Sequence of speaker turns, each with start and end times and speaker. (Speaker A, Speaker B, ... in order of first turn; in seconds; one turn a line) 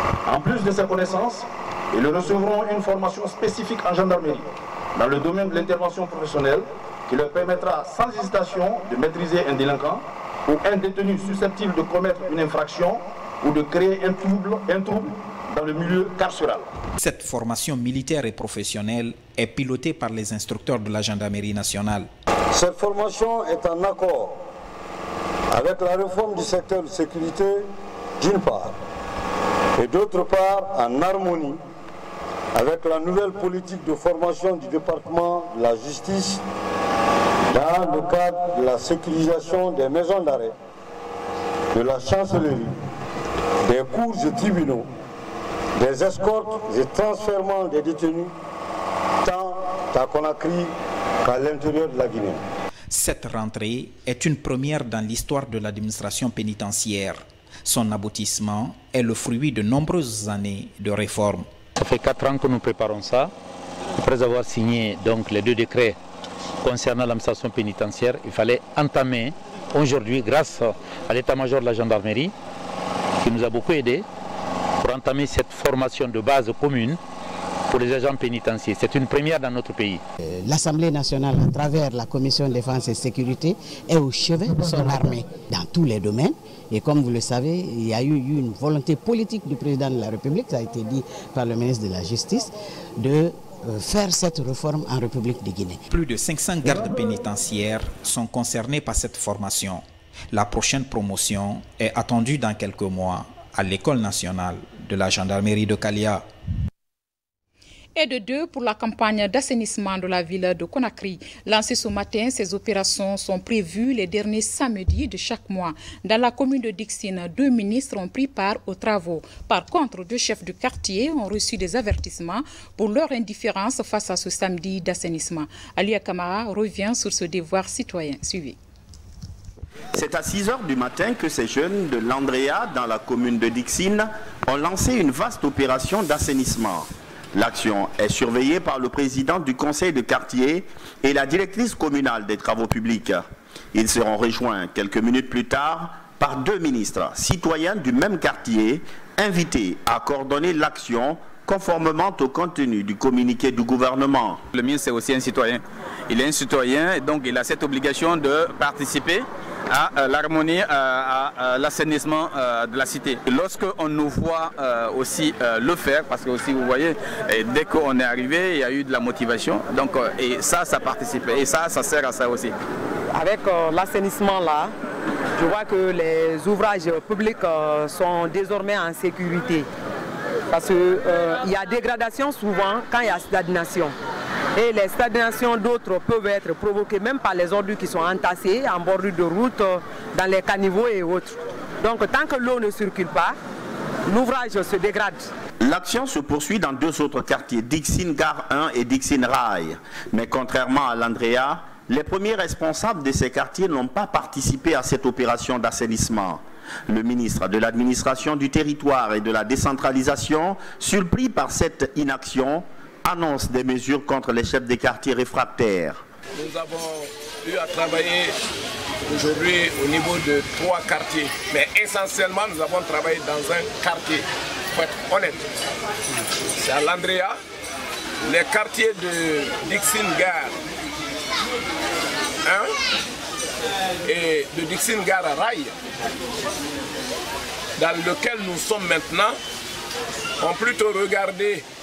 Speaker A: 0.3-16.6
Speaker B: 17.0-22.1
Speaker C: 22.6-24.3
Speaker C: 25.6-27.5
Speaker C: 28.2-28.7
Speaker C: 29.8-31.5
Speaker C: 32.6-36.3
Speaker C: 37.5-40.5
Speaker C: 41.8-42.6
Speaker C: 43.7-44.8
Speaker C: 45.8-48.3
Speaker C: 49.9-50.7
Speaker C: 51.3-52.4
Speaker B: 52.9-61.5
Speaker D: 61.8-63.2
Speaker D: 64.0-65.1
Speaker D: 66.6-66.9
Speaker D: 73.2-73.9
Speaker D: 74.8-76.9
Speaker D: 77.7-80.0
Speaker E: 80.3-95.8
Speaker B: 95.9-106.3
Speaker F: 108.0-128.6
Speaker G: 129.9-154.4
Speaker H: 154.5-172.5
Speaker I: 173.1-174.7
Speaker I: 175.4-179.7
Speaker I: 180.5-183.9
Speaker I: 184.6-193.3
Speaker I: 194.1-195.3
Speaker G: 195.6-216.0
Speaker J: 216.3-218.3
Speaker J: 219.1-225.5
Speaker J: 226.6-227.3
Speaker J: 228.2-230.6
Speaker J: 232.4-232.7
Speaker J: 234.0-235.7
Speaker J: 237.8-239.4
Speaker J: 240.4-241.6